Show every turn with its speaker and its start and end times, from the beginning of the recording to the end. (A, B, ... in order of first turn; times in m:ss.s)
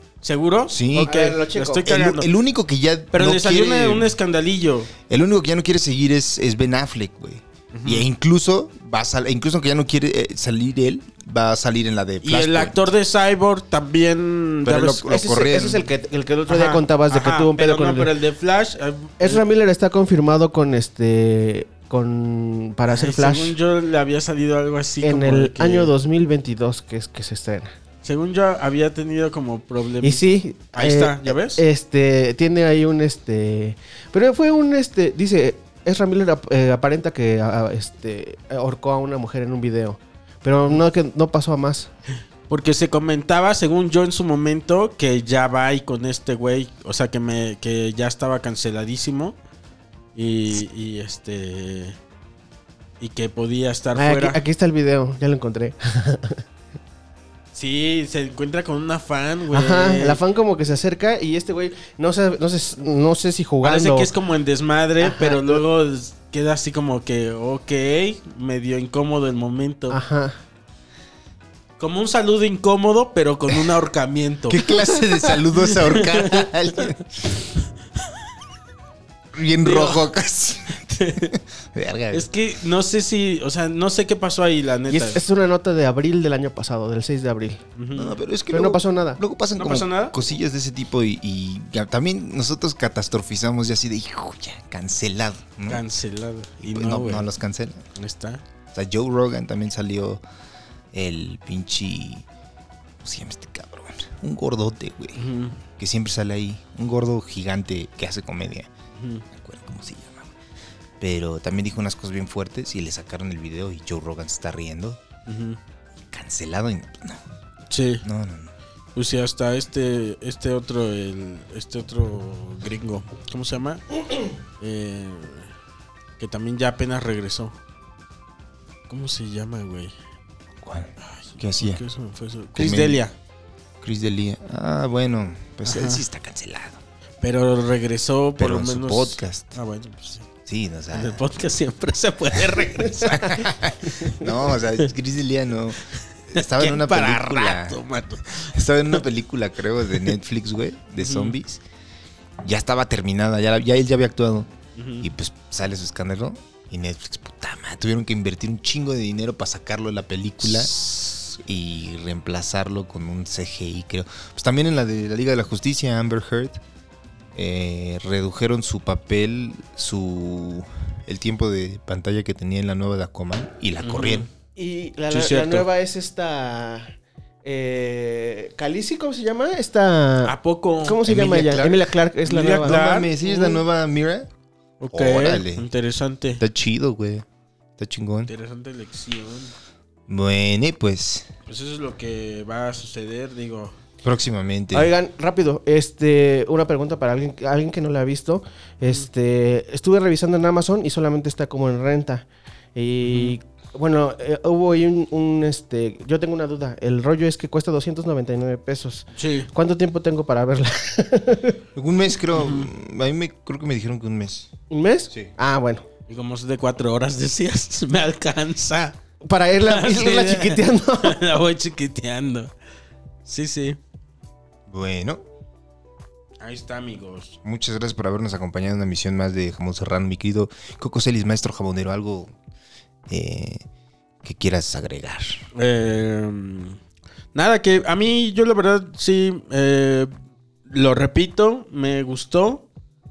0:00.2-0:02.3 A
0:00.7-0:01.1 B
0:01.0-0:01.9 C
0:01.8-0:04.1 B
0:03.1-0:04.9 A
0:05.1-0:12.8 B
0:07.7-0:08.0 A
0:12.2-0:15.1 A
0:14.6-0:15.8 B
0:15.1-0:18.1 C
0:16.5-0:19.4 A
0:19.2-0:23.6 C
0:22.9-0:25.9 A
0:25.0-0:27.7 C
0:28.0-0:31.6 A
0:30.0-0:41.9 C
0:42.5-0:49.4 A
0:50.1-0:52.0 A
0:53.0-0:54.4 A
0:53.9-0:56.4 C
0:57.5-1:00.2 A
0:59.5-1:04.1 C
1:03.6-1:10.0 A
1:05.0-1:05.6 C
1:09.9-1:10.4 C
1:11.8-1:14.7 A
1:14.5-1:17.0 B
1:15.8-1:16.5 A
1:19.3-1:22.3 B
1:19.6-1:20.0 A
1:20.9-1:21.3 A
1:22.1-1:25.2 A
1:24.9-1:27.6 C
1:27.8-1:28.1 A
1:27.9-1:35.8 B
1:28.5-1:29.2 C
1:29.6-1:30.1 A
1:35.7-1:37.3 A
1:36.6-1:37.8 B
1:38.0-1:38.4 A
1:38.7-1:40.2 B
1:40.9-1:42.2 B
1:43.0-1:45.2 B
1:45.1-1:45.6 A
1:45.8-1:48.7 B
1:48.9-1:49.2 A
1:49.3-1:50.3 B
1:51.0-1:55.0 B
1:55.3-1:55.6 A
1:56.1-1:57.2 B
1:57.7-1:58.0 A
1:58.0-1:58.5 B
1:58.9-2:03.8 A
2:04.6-2:05.5 A
2:06.2-2:07.6 A
2:08.9-2:09.9 A
2:10.6-2:11.8 B
2:11.0-2:13.1 A
2:12.5-2:13.0 B
2:13.8-2:16.8 B
2:15.6-2:16.0 A
2:17.2-2:20.3 A
2:18.4-2:19.6 B
2:20.4-2:21.2 B
2:20.9-2:23.5 A
2:23.1-2:27.8 B
2:26.3-2:28.5 A
2:28.4-2:31.6 B
2:31.0-2:31.4 A
2:32.4-2:34.5 B
2:34.8-2:35.1 A
2:35.0-2:46.6 B
2:40.4-2:41.2 A
2:47.3-2:54.3 B
2:53.8-2:54.3 A
2:54.6-2:56.9 C
2:55.1-2:55.7 A
2:57.4-3:03.0 C
3:00.2-3:01.7 A
3:01.2-3:01.8 B
3:02.2-3:03.5 A
3:02.5-3:04.3 B
3:04.8-3:06.4 A
3:04.9-3:05.6 B
3:06.4-3:07.2 B
3:07.8-3:08.3 B
3:08.3-3:09.5 A
3:10.1-3:11.3 B
3:11.4-3:13.7 A
3:14.0-3:14.9 B
3:14.7-3:31.6 C
3:23.0-3:23.4 A
3:29.2-3:29.5 A
3:31.7-3:34.5 B
3:32.3-3:32.7 A
3:34.7-3:35.8 C
3:36.1-3:39.0 A
3:39.2-3:41.2 C
3:39.6-3:42.5 A
3:43.2-3:43.8 A
3:44.7-3:45.2 B
3:46.4-3:47.4 A
3:47.4-3:52.3 B
3:53.1-3:53.6 B
3:54.2-3:55.4 B
3:55.5-3:56.8 A
3:57.3-4:00.1 A
4:00.7-4:02.6 A